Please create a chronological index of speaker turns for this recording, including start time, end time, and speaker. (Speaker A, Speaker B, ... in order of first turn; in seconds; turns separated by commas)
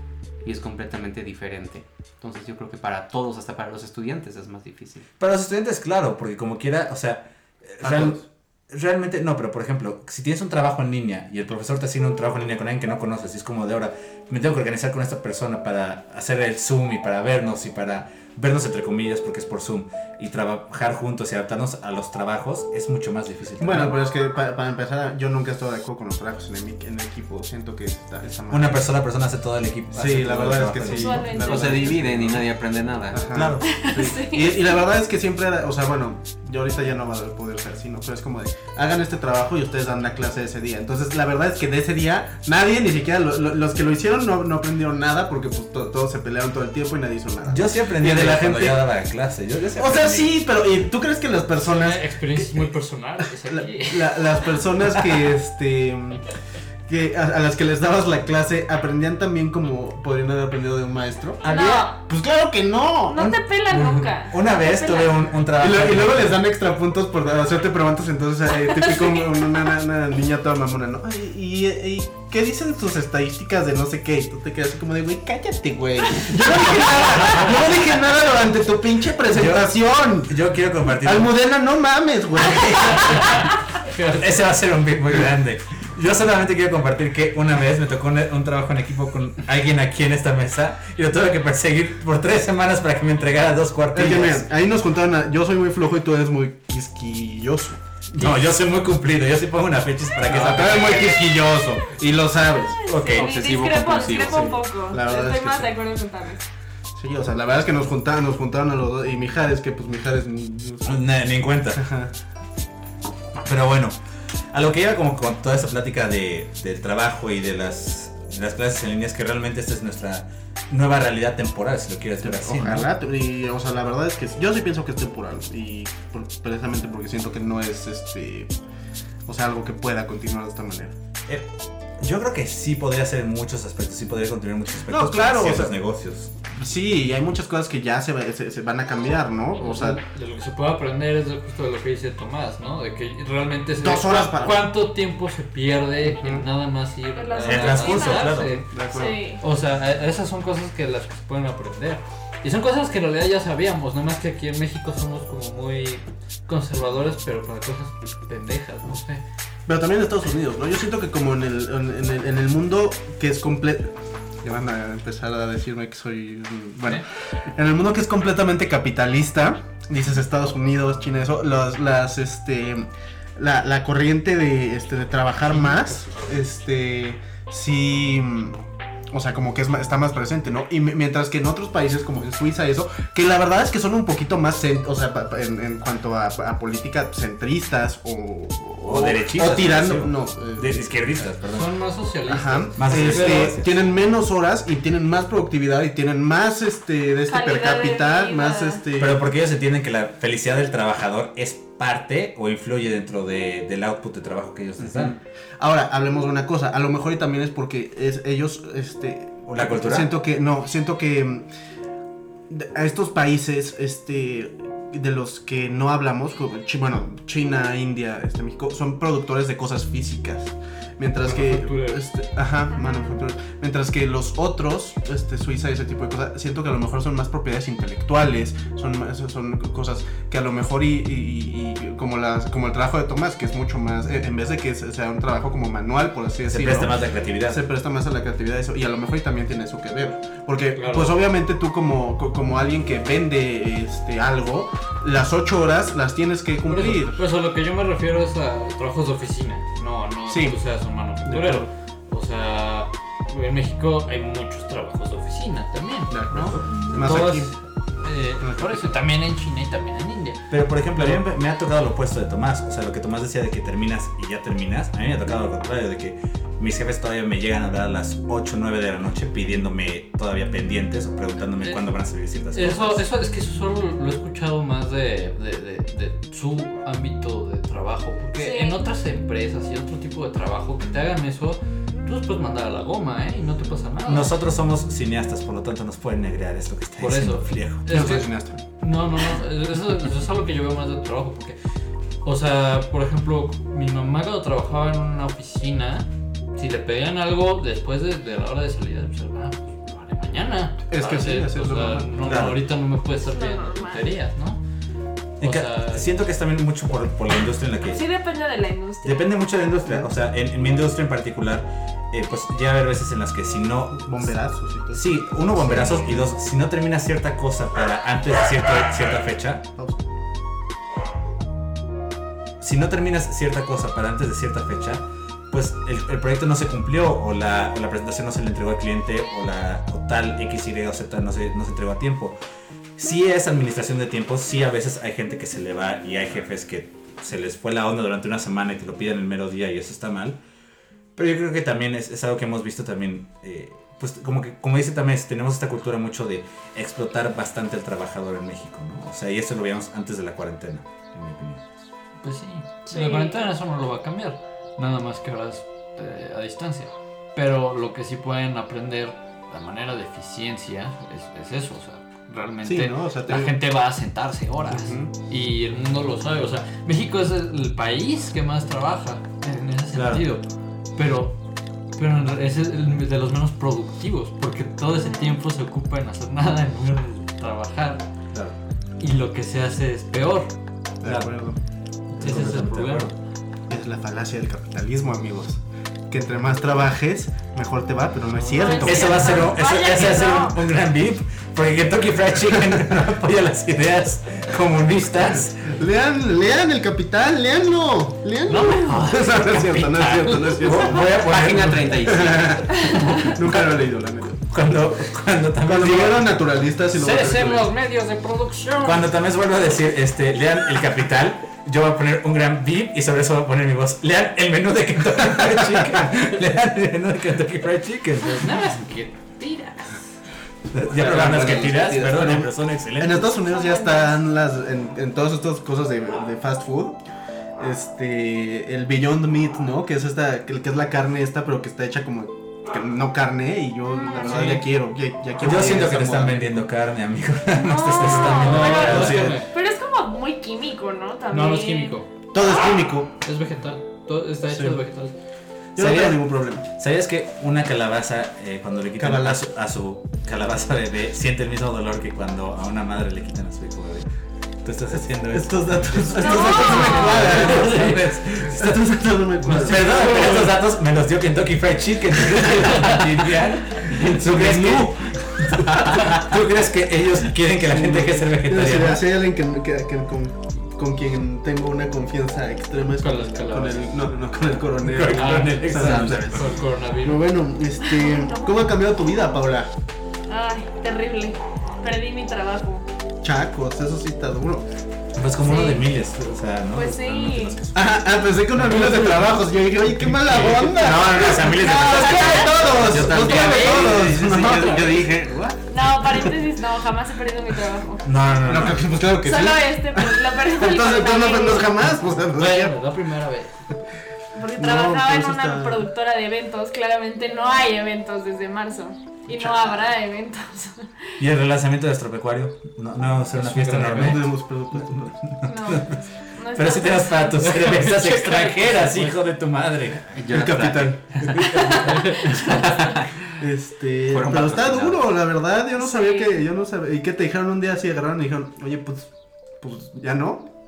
Speaker A: 0.4-5.1, Speaker B: 5.2-24.0, Speaker C: 7.8-8.2, Speaker C: 23.6-28.8, Speaker B: 28.5-31.7, Speaker C: 29.9-32.4, Speaker D: 30.9-31.9, Speaker A: 31.4-33.3, Speaker C: 33.1-48.8, Speaker B: 33.3-33.8, Speaker D: 33.6-34.6, Speaker B: 47.4-50.5, Speaker C: 49.8-52.7, Speaker E: 51.6-54.5, Speaker C: 53.5-56.3, Speaker C: 56.9-63.3, Speaker D: 61.4-62.0, Speaker D: 63.1-65.2, Speaker B: 63.2-66.4, Speaker C: 65.6-80.4, Speaker B: 79.3-79.7, Speaker B: 80.2-81.3, Speaker C: 80.9-83.3, Speaker B: 82.4-83.2, Speaker E: 83.1-84.5, Speaker B: 84.2-94.5, Speaker C: 93.9-97.8, Speaker B: 98.1-101.3, Speaker C: 100.2-102.8, Speaker D: 102.8-106.4, Speaker B: 102.9-103.3, Speaker A: 103.1-104.5, Speaker C: 104.1-105.8, Speaker C: 107.0-111.2, Speaker B: 110.8-111.8, Speaker C: 111.7-112.1, Speaker B: 113.4-114.0, Speaker B: 114.5-122.9, Speaker C: 122.2-128.5, Speaker C: 129.3-130.9, Speaker B: 132.0-136.3, Speaker C: 134.9-135.7, Speaker C: 136.5-140.0, Speaker E: 139.6-159.2, Speaker C: 143.8-144.6, Speaker D: 147.2-149.4, Speaker B: 147.4-148.6, Speaker C: 148.7-149.2, Speaker C: 159.7-190.9, Speaker E: 175.5-176.3, Speaker B: 188.8-191.7, Speaker E: 191.5-193.6, Speaker C: 192.3-199.2, Speaker B: 192.8-193.7, Speaker D: 197.3-198.8, Speaker B: 199.0-205.2, Speaker A: 204.8-205.1, Speaker C: 205.6-211.5, Speaker B: 209.5-210.1, Speaker C: 212.5-247.2, Speaker E: 221.2-222.1, Speaker B: 236.5-237.6, Speaker E: 240.7-241.2, Speaker E: 246.7-260.4, Speaker C: 250.3-250.6, Speaker C: 251.3-251.7, Speaker C: 256.1-257.5, Speaker D: 256.7-257.2, Speaker C: 258.4-258.9, Speaker B: 260.5-273.0, Speaker E: 272.5-284.4, Speaker D: 278.4-278.9, Speaker B: 284.1-287.9, Speaker E: 287.0-291.6, Speaker C: 287.9-288.6, Speaker E: 292.2-304.6, Speaker C: 300.9-302.6, Speaker B: 302.2-302.6, Speaker D: 303.2-304.1, Speaker E: 305.4-306.1, Speaker B: 305.4-308.0, Speaker D: 307.9-309.3, Speaker B: 309.0-314.4, Speaker C: 314.0-316.3, Speaker B: 314.9-319.6, Speaker C: 319.8-320.0, Speaker B: 322.6-332.4, Speaker B: 333.0-340.4, Speaker B: 341.2-351.6, Speaker E: 352.2-371.4, Speaker D: 352.9-353.4, Speaker C: 362.6-363.6, Speaker C: 364.7-365.1, Speaker B: 369.9-370.2, Speaker E: 371.9-378.1, Speaker D: 375.1-375.4, Speaker E: 379.0-380.5, Speaker C: 381.0-381.6, Speaker B: 381.0-381.3, Speaker B: 382.1-383.1, Speaker E: 382.2-383.1, Speaker C: 383.7-389.5, Speaker E: 388.3-389.1, Speaker D: 388.6-390.6, Speaker B: 388.8-395.7, Speaker C: 395.7-401.2, Speaker E: 398.5-400.8, Speaker B: 400.6-402.1, Speaker A: 401.1-402.9, Speaker C: 402.0-404.4, Speaker D: 402.8-403.3, Speaker B: 404.4-406.4, Speaker C: 405.7-407.7, Speaker E: 406.9-409.1, Speaker B: 408.8-418.5, Speaker C: 415.4-416.1, Speaker E: 418.2-420.0, Speaker B: 420.7-423.3, Speaker A: 420.9-422.4, Speaker C: 421.0-427.0, Speaker D: 423.4-424.2, Speaker C: 427.6-436.6, Speaker D: 433.9-434.5, Speaker E: 434.2-434.7, Speaker B: 435.4-439.4, Speaker D: 437.6-442.0, Speaker C: 438.1-439.4, Speaker E: 438.3-439.5, Speaker E: 441.3-442.1, Speaker C: 442.3-443.1, Speaker E: 443.2-445.1, Speaker C: 444.5-444.8, Speaker C: 445.8-446.6, Speaker B: 445.8-454.1, Speaker C: 449.0-449.5, Speaker B: 454.6-458.8, Speaker C: 455.3-460.6, Speaker D: 456.1-457.4, Speaker E: 456.6-458.0, Speaker B: 459.4-469.1, Speaker E: 459.5-460.5, Speaker C: 462.4-462.6, Speaker E: 462.5-463.1, Speaker C: 463.9-465.7, Speaker C: 467.7-476.4, Speaker E: 473.0-473.9, Speaker B: 474.8-476.4, Speaker E: 475.1-477.2, Speaker A: 475.7-476.5, Speaker C: 477.0-479.7, Speaker D: 477.8-478.5, Speaker D: 480.3-482.9, Speaker C: 483.2-484.7, Speaker B: 485.2-488.0, Speaker D: 485.4-485.8, Speaker D: 486.7-487.6, Speaker C: 487.7-495.6, Speaker B: 488.6-488.9, Speaker B: 489.9-493.5, Speaker D: 491.3-492.8, Speaker A: 492.8-495.5, Speaker E: 492.9-495.1, Speaker D: 495.7-498.1, Speaker B: 498.1-498.9, Speaker C: 498.4-502.7, Speaker D: 499.2-501.8, Speaker E: 502.4-503.8, Speaker D: 504.4-511.1, Speaker C: 504.6-505.9, Speaker C: 509.3-509.9, Speaker B: 511.2-520.1, Speaker C: 513.4-515.3, Speaker D: 515.5-517.5, Speaker E: 517.4-519.2, Speaker A: 520.1-521.2, Speaker C: 520.3-521.0, Speaker B: 521.2-522.1, Speaker D: 521.4-523.0, Speaker E: 521.7-522.6, Speaker A: 522.3-523.1, Speaker C: 523.4-530.5, Speaker A: 524.1-525.0, Speaker D: 525.8-526.4